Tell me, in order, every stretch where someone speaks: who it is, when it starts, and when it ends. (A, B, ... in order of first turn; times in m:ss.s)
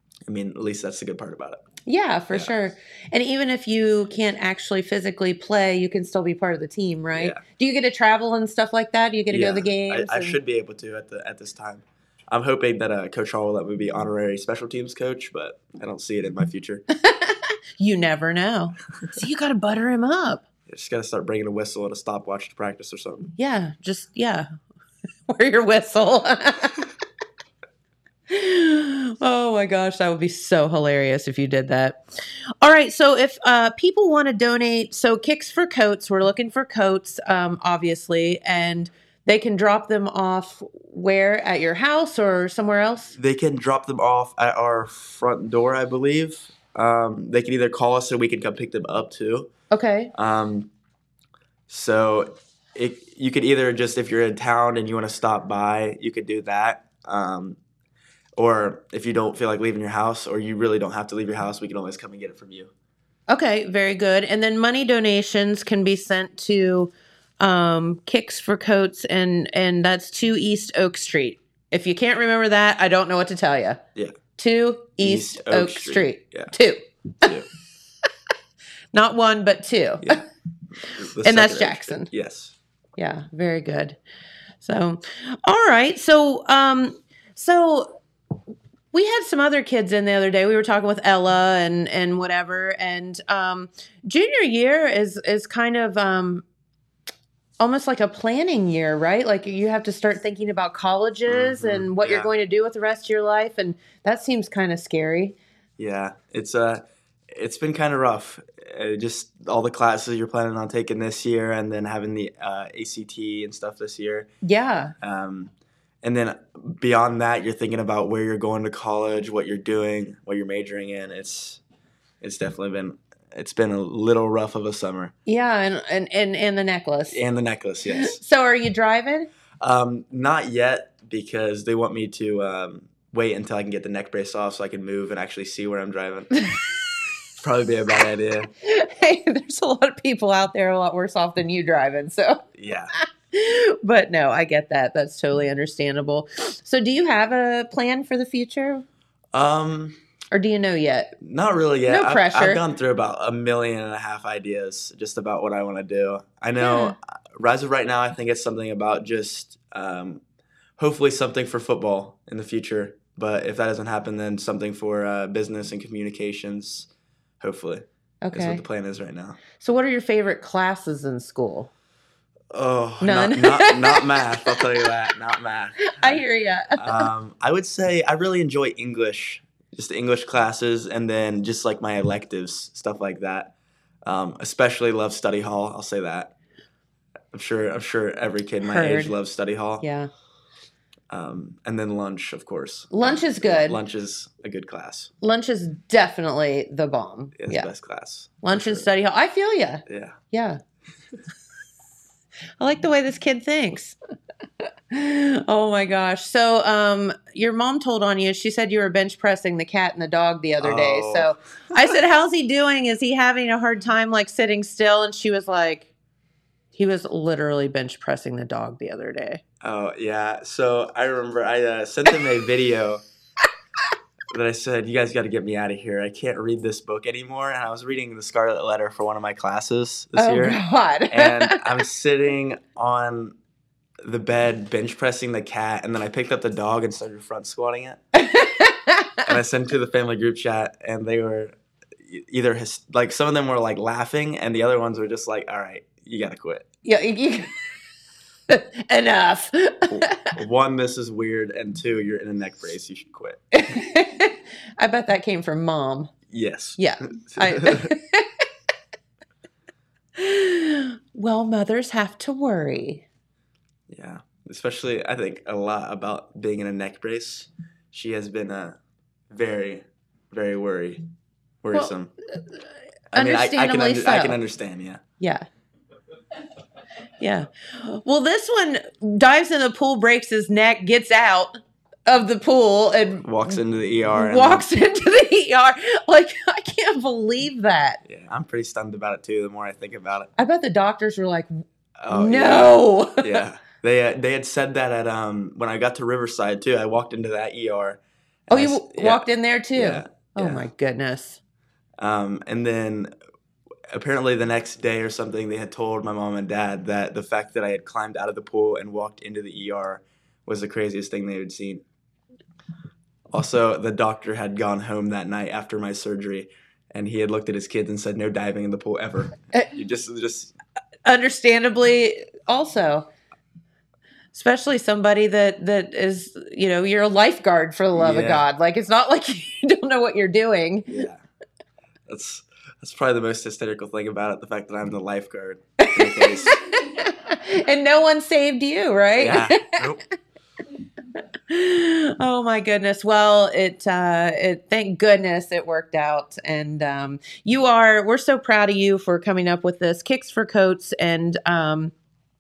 0:00.3-0:01.6 A
0:01.8-0:10.4 B
0:07.2-0:07.4 A
0:09.3-0:16.8 A
0:17.0-0:20.4 B
0:20.7-0:23.3 A
0:23.4-0:24.5 B
0:25.3-0:26.9 B
0:28.3-0:32.0 B
0:32.6-0:43.1 B
0:43.2-0:49.5 A
0:49.7-0:50.1 B
0:50.1-0:50.7 A
0:51.7-0:57.6 A
0:58.4-1:02.7 A
1:03.3-1:13.8 B
1:14.4-1:17.3 B
1:15.0-1:16.5 A
1:18.9-1:20.2 B
1:20.8-1:22.6 A
1:21.2-1:22.1 B
1:23.0-1:24.0 B
1:24.6-1:28.0 B
1:28.9-1:36.4 B
1:37.6-1:45.4 B
1:41.3-1:42.3 A
1:45.8-1:54.3 A
1:54.4-1:54.9 B
1:55.0-2:01.6 A
2:02.2-2:05.1 A
2:05.3-2:07.2 B
2:07.1-2:08.2 A
2:07.9-2:09.3 B
2:09.6-2:16.4 A
2:17.4-2:18.5 A
2:18.6-2:22.4 B
2:22.6-2:22.9 A
2:23.0-2:28.8 B
2:29.3-2:30.0 A
2:30.3-2:31.2 B
2:31.2-2:40.2 A
2:31.9-2:32.6 B
2:36.6-2:37.0 B
2:40.8-2:46.9 A
2:47.4-2:49.4 A
2:48.2-2:48.6 B
2:49.6-2:51.7 B
2:52.5-2:56.2 A
2:53.0-2:54.9 B
2:55.8-2:57.1 B
2:56.8-3:03.5 A
3:04.0-3:06.3 A
3:07.3-3:09.9 A
3:08.6-3:09.1 B
3:09.8-3:10.1 B
3:11.1-3:15.1 A
3:12.9-3:13.8 B
3:15.2-3:17.7 B
3:17.4-3:18.9 A
3:18.4-3:20.6 B
3:19.9-3:20.2 A
3:22.6-3:24.0 B
3:24.9-3:35.9 B
3:30.6-3:31.4 A
3:36.7-3:39.4 B
3:39.6-3:43.0 A
3:44.3-3:53.4 A
3:50.2-3:51.8 B
3:54.0-3:58.0 A
3:58.1-3:59.3 B
3:59.2-4:06.7 A
4:06.8-4:07.6 B
4:08.5-4:10.4 B
4:09.9-4:13.4 A
4:13.5-4:16.1 B
4:16.3-4:17.9 A
4:16.8-4:18.3 B
4:20.2-4:23.0 B
4:23.9-4:28.8 A
4:29.3-4:31.0 A
4:31.6-4:32.1 A
4:31.7-4:32.6 B
4:33.1-4:35.0 A
4:33.1-4:34.4 B
4:35.2-4:35.5 B
4:37.2-4:43.6 B
4:43.2-4:44.6 A
4:44.1-4:48.0 B
4:48.0-4:50.3 A
4:50.4-4:51.5 B
4:52.0-5:00.6 A
4:52.1-4:53.4 B
4:58.5-5:01.4 B
5:02.0-5:03.1 A
5:03.9-5:11.8 A
5:13.3-5:20.5 A
5:21.0-5:23.1 B
5:24.3-5:31.0 B
5:27.9-5:28.5 A
5:30.9-5:31.2 A
5:32.1-5:36.6 A
5:35.8-5:40.0 B
5:39.1-5:40.0 A
5:41.5-5:51.9 B